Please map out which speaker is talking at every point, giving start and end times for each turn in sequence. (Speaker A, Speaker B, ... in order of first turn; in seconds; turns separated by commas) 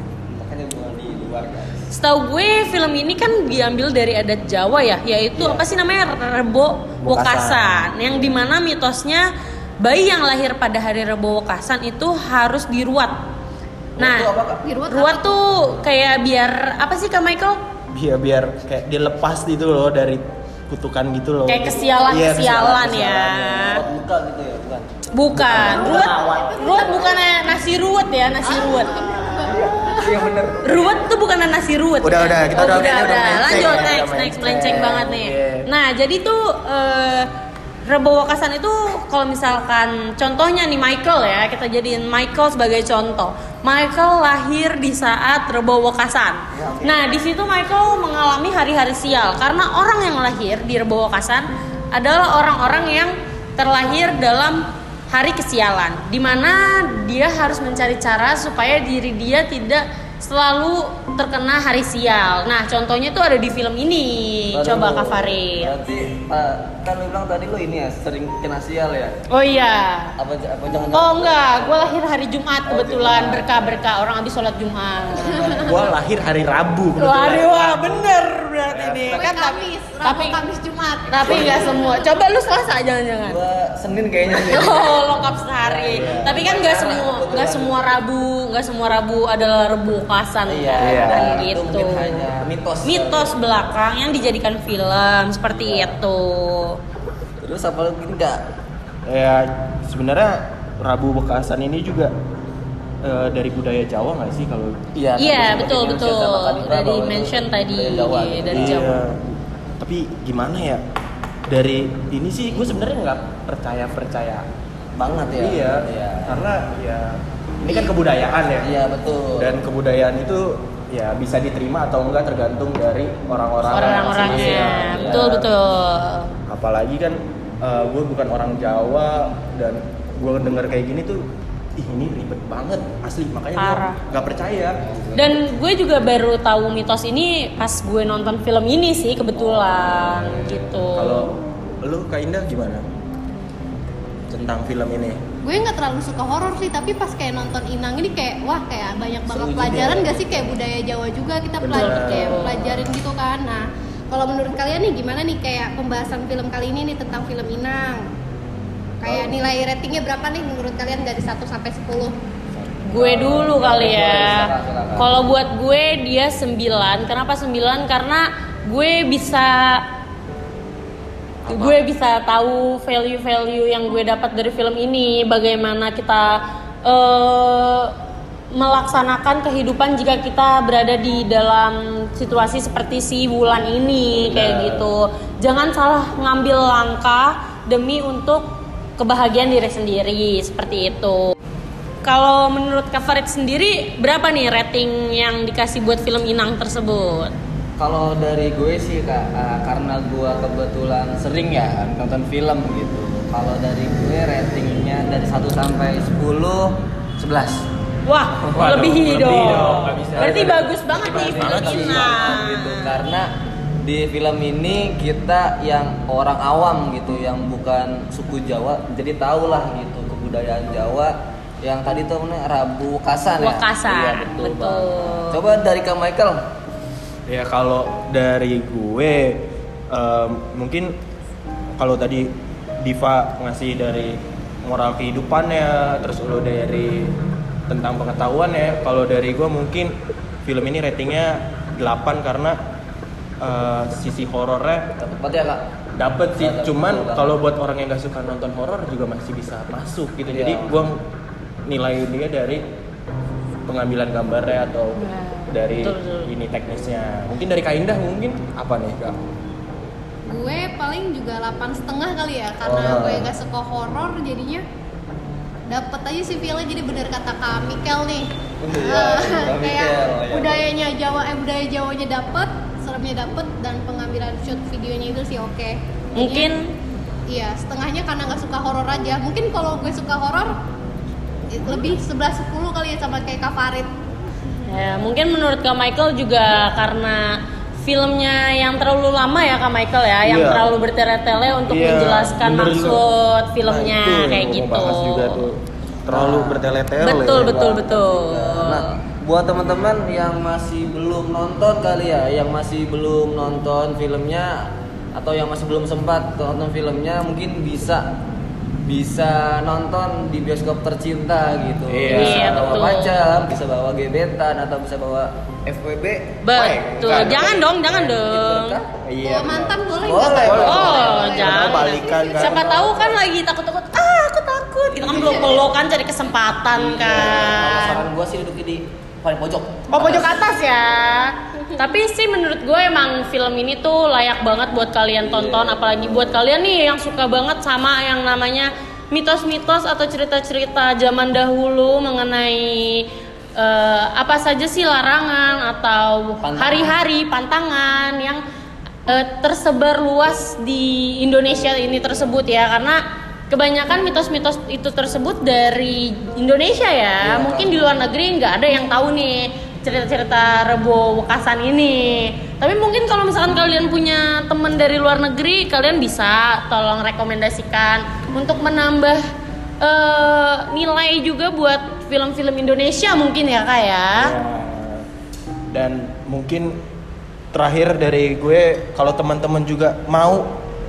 Speaker A: 0.3-1.9, Speaker B: 1.9-9.3, Speaker A: 5.4-5.6, Speaker C: 7.0-8.2, Speaker B: 9.8-13.1, Speaker A: 14.0-14.7, Speaker B: 14.0-14.3, Speaker D: 14.6-15.3, Speaker B: 14.9-17.6, Speaker C: 17.9-23.8, Speaker B: 21.5-23.8, Speaker A: 23.6-24.9, Speaker B: 25.1-29.1, Speaker C: 25.4-26.9, Speaker D: 25.6-27.8, Speaker D: 28.4-30.1, Speaker A: 29.5-31.1, Speaker B: 30.6-37.3, Speaker C: 32.0-35.7, Speaker B: 37.9-65.7, Speaker A: 46.5-47.2, Speaker A: 64.5-69.2, Speaker B: 69.3-70.2, Speaker A: 70.2-72.0, Speaker B: 70.9-75.5, Speaker A: 72.7-73.8, Speaker A: 75.1-75.8, Speaker D: 75.2-75.7, Speaker C: 75.4-78.1, Speaker B: 77.0-80.4, Speaker C: 78.7-79.3, Speaker D: 79.1-82.1, Speaker B: 81.1-83.4, Speaker A: 81.2-81.7, Speaker A: 83.2-85.1, Speaker B: 84.3-92.3, Speaker A: 85.6-88.0, Speaker C: 85.9-86.4, Speaker A: 90.5-93.5, Speaker C: 90.8-91.5, Speaker B: 92.8-96.8, Speaker A: 95.5-96.0, Speaker A: 97.4-98.5, Speaker C: 99.1-102.1, Speaker C: 103.0-104.8, Speaker A: 105.0-108.8, Speaker B: 105.2-109.0, Speaker C: 108.5-110.8, Speaker C: 111.5-114.5, Speaker A: 115.0-116.4, Speaker C: 115.3-118.7, Speaker A: 118.6-119.6, Speaker C: 119.4-125.5, Speaker B: 123.7-126.3, Speaker A: 123.8-125.4, Speaker C: 126.5-131.2, Speaker C: 131.8-134.8, Speaker B: 133.6-134.0, Speaker A: 134.8-135.4, Speaker B: 135.2-141.3, Speaker A: 139.4-140.7, Speaker C: 140.9-142.8, Speaker C: 144.3-145.2, Speaker D: 145.4-158.1, Speaker A: 149.3-150.6, Speaker C: 151.6-152.5, Speaker B: 151.7-152.7, Speaker D: 159.0-162.2, Speaker A: 159.0-159.4, Speaker A: 162.6-165.3, Speaker B: 162.8-169.8, Speaker B: 171.5-177.9, Speaker B: 178.5-188.4, Speaker C: 184.3-184.7, Speaker A: 184.4-184.9, Speaker B: 189.0-191.3, Speaker B: 192.0-197.3, Speaker A: 197.8-207.7, Speaker B: 208.1-212.9, Speaker C: 208.4-212.2, Speaker A: 210.1-226.4, Speaker B: 223.4-225.4, Speaker C: 227.3-230.9, Speaker C: 231.8-232.3, Speaker C: 232.8-237.1, Speaker C: 237.7-242.6, Speaker C: 243.4-244.9, Speaker A: 245.0-245.7, Speaker C: 246.0-251.0, Speaker A: 246.4-247.4, Speaker A: 250.3-250.8, Speaker C: 251.7-252.6, Speaker C: 253.7-259.2, Speaker B: 255.0-256.3, Speaker D: 260.3-264.6, Speaker A: 262.6-263.3, Speaker C: 262.7-263.3, Speaker D: 265.7-276.5, Speaker A: 268.6-270.7, Speaker B: 276.1-276.7, Speaker D: 277.3-280.5, Speaker D: 281.5-283.9, Speaker B: 284.7-295.4, Speaker C: 290.2-290.7, Speaker C: 291.7-293.0, Speaker C: 293.6-297.6, Speaker A: 296.1-296.7, Speaker B: 297.0-298.8, Speaker A: 297.3-308.1, Speaker A: 308.8-316.4, Speaker C: 311.9-312.8, Speaker B: 312.1-313.2, Speaker B: 316.4-318.8, Speaker C: 316.6-317.6, Speaker A: 317.0-318.9, Speaker C: 319.0-319.8, Speaker D: 319.2-322.7, Speaker A: 320.0-321.4, Speaker C: 320.4-322.6, Speaker B: 320.6-328.0, Speaker A: 322.1-323.2, Speaker A: 324.9-325.8, Speaker D: 325.0-325.6, Speaker A: 326.7-330.5, Speaker B: 329.9-343.1, Speaker A: 335.2-336.4, Speaker B: 343.6-348.4, Speaker A: 346.4-347.0, Speaker B: 349.1-353.0, Speaker B: 353.5-369.2, Speaker A: 357.2-357.8, Speaker B: 369.8-374.4, Speaker C: 374.1-375.1, Speaker C: 375.7-376.8, Speaker C: 377.5-380.5